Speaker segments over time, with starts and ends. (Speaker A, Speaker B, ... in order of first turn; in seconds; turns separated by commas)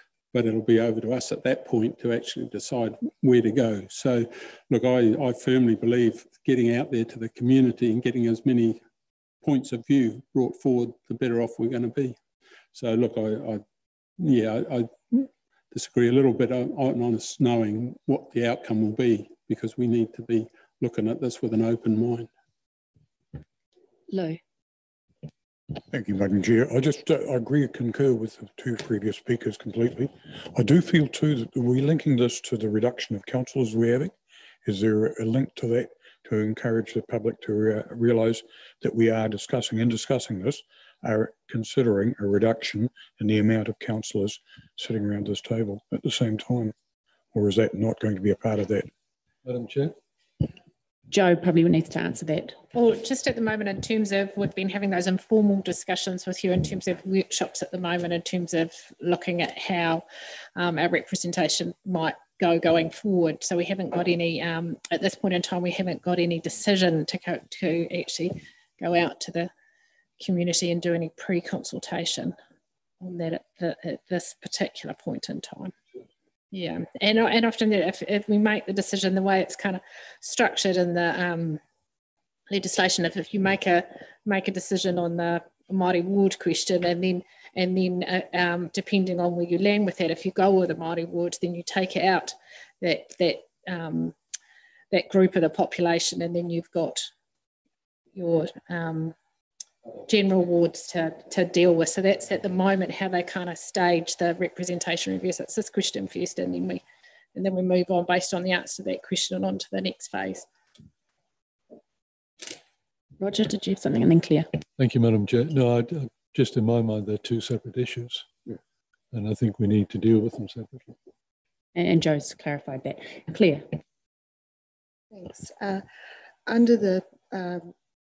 Speaker A: 0.3-8.8, Speaker A: 9.4-12.2, Speaker A: 12.7-13.6, Speaker A: 14.2-22.3, Speaker B: 24.1-24.4, Speaker C: 25.9-34.1, Speaker C: 34.6-46.7, Speaker C: 47.3-48.9, Speaker D: 49.5-50.0, Speaker B: 51.1-52.6, Speaker E: 52.7-60.0, Speaker E: 60.6-69.5, Speaker E: 70.2-72.4, Speaker E: 73.0-75.8, Speaker E: 76.5-81.6, Speaker E: 82.5-94.2, Speaker E: 94.9-97.1, Speaker E: 98.2-99.2, Speaker E: 100.1-106.8, Speaker E: 107.3-110.5, Speaker B: 113.2-114.6, Speaker D: 114.8-118.3, Speaker D: 119.1-120.9, Speaker B: 121.8-123.8, Speaker F: 125.1-125.8, Speaker F: 126.5-127.7